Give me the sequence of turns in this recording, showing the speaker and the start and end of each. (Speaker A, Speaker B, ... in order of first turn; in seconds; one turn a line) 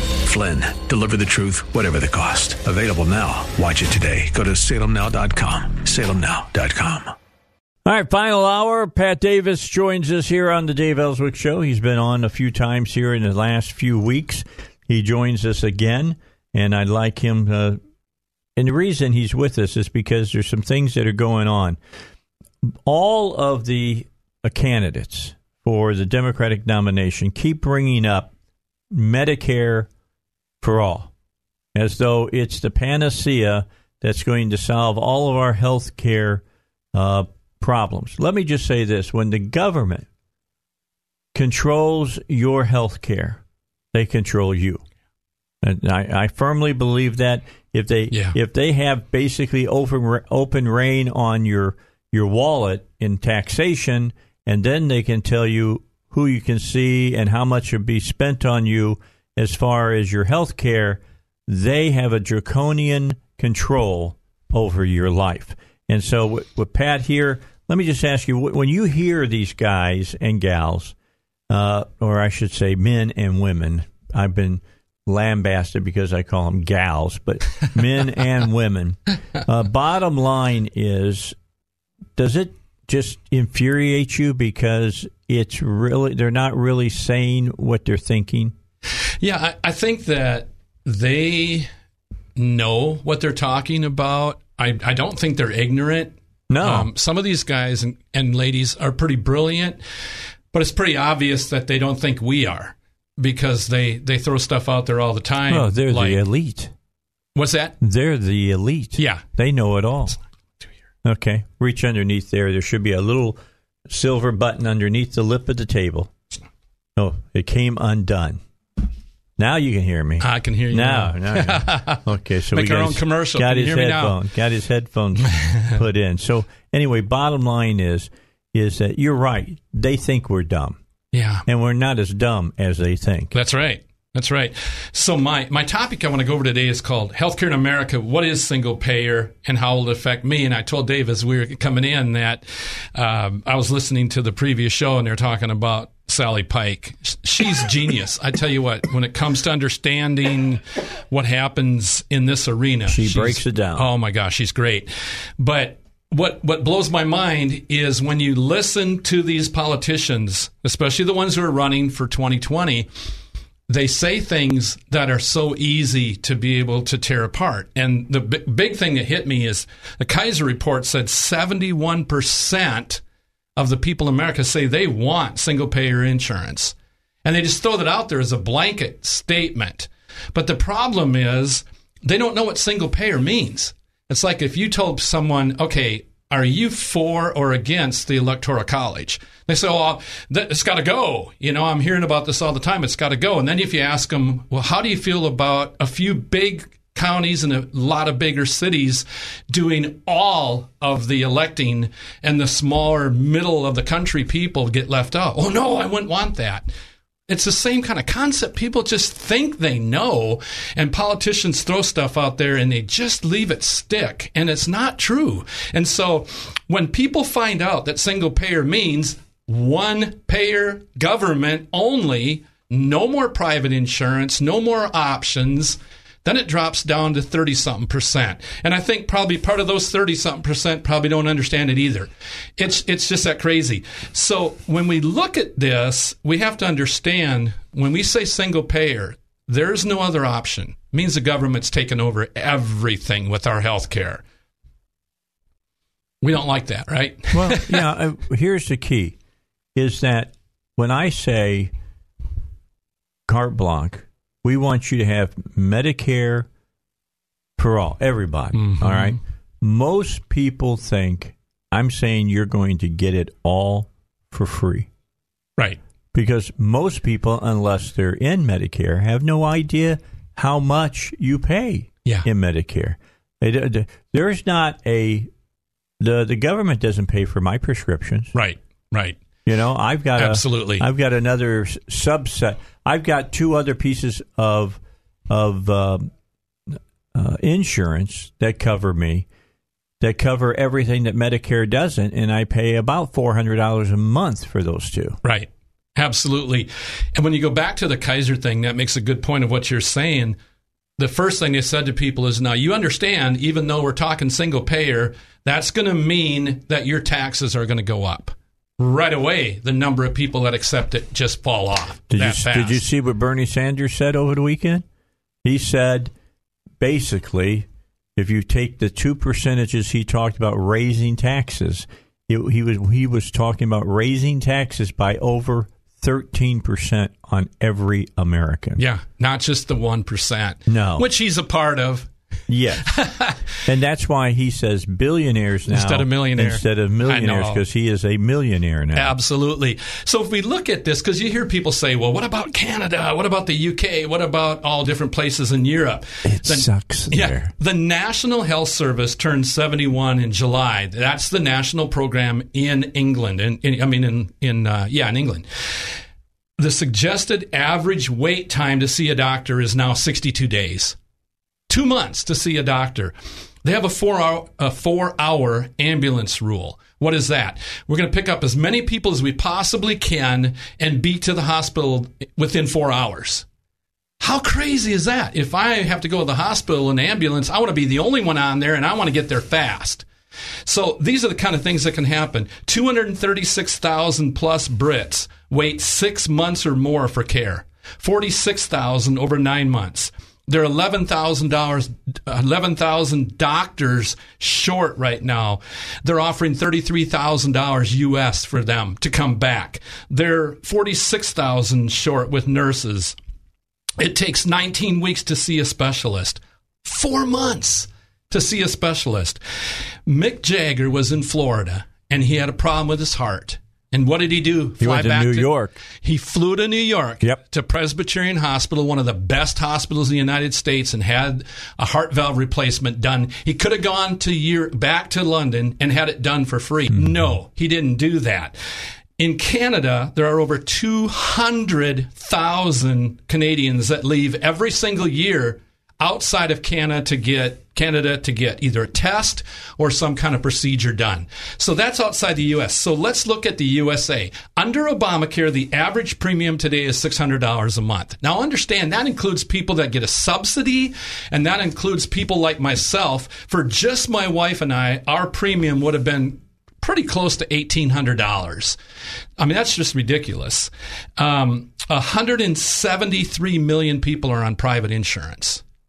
Speaker A: 0.2-7.1
Speaker B: 7.8-17.8
Speaker B: 18.6-21.8
Speaker B: 22.9-28.3
Speaker B: 28.9-29.9
Speaker B: 30.6-31.1
Speaker B: 31.8-36.4
Speaker B: 36.9-40.1
Speaker B: 41.3-43.4
Speaker B: 43.9-44.8
Speaker B: 45.6-71.0
Speaker B: 71.5-81.3
Speaker B: 82.2-88.5
Speaker C: 89.2-91.7
Speaker C: 92.4-99.8
Speaker B: 96.5-96.9
Speaker C: 100.5-106.2
Speaker B: 105.5-106.7
Speaker C: 107.4-107.8
Speaker B: 107.8-110.2
Speaker C: 109.0-109.2
Speaker B: 111.0-116.1
Speaker B: 117.0-118.4
Speaker B: 119.4-130.8
Speaker C: 120.2-122.0
Speaker C: 122.5-124.2
Speaker C: 125.4-125.8
Speaker C: 131.1-131.4
Speaker B: 131.5-133.3
Speaker C: 133.3-162.9
Speaker B: 152.9-153.9
Speaker C: 163.7-173.0
Speaker C: 173.6-206.7
Speaker C: 207.3-244.2
Speaker C: 246.2-247.8
Speaker B: 247.3-249.2
Speaker B: 249.8-251.7
Speaker B: 253.3-256.5
Speaker B: 257.6-264.9
Speaker C: 258.5-259.2
Speaker B: 266.1-275.3
Speaker B: 276.0-278.3
Speaker C: 278.3-279.2
Speaker B: 279.5-286.1
Speaker C: 280.2-280.9
Speaker B: 287.1-289.3
Speaker B: 290.0-295.2
Speaker C: 295.2-300.4
Speaker C: 301.0-312.8
Speaker B: 312.1-314.8
Speaker B: 315.4-316.1
Speaker B: 316.8-328.8
Speaker C: 328.8-332.1
Speaker B: 330.7-331.1
Speaker B: 332.5-332.9
Speaker C: 332.8-333.4
Speaker B: 333.6-339.1
Speaker C: 335.7-337.6
Speaker C: 338.9-355.4
Speaker B: 346.3-347.5
Speaker C: 356.6-361.0
Speaker C: 361.7-373.5
Speaker C: 374.2-380.1
Speaker C: 380.6-403.2
Speaker C: 404.0-409.4
Speaker C: 410.1-428.6
Speaker B: 414.8-415.8
Speaker C: 429.2-458.8
Speaker C: 459.4-465.6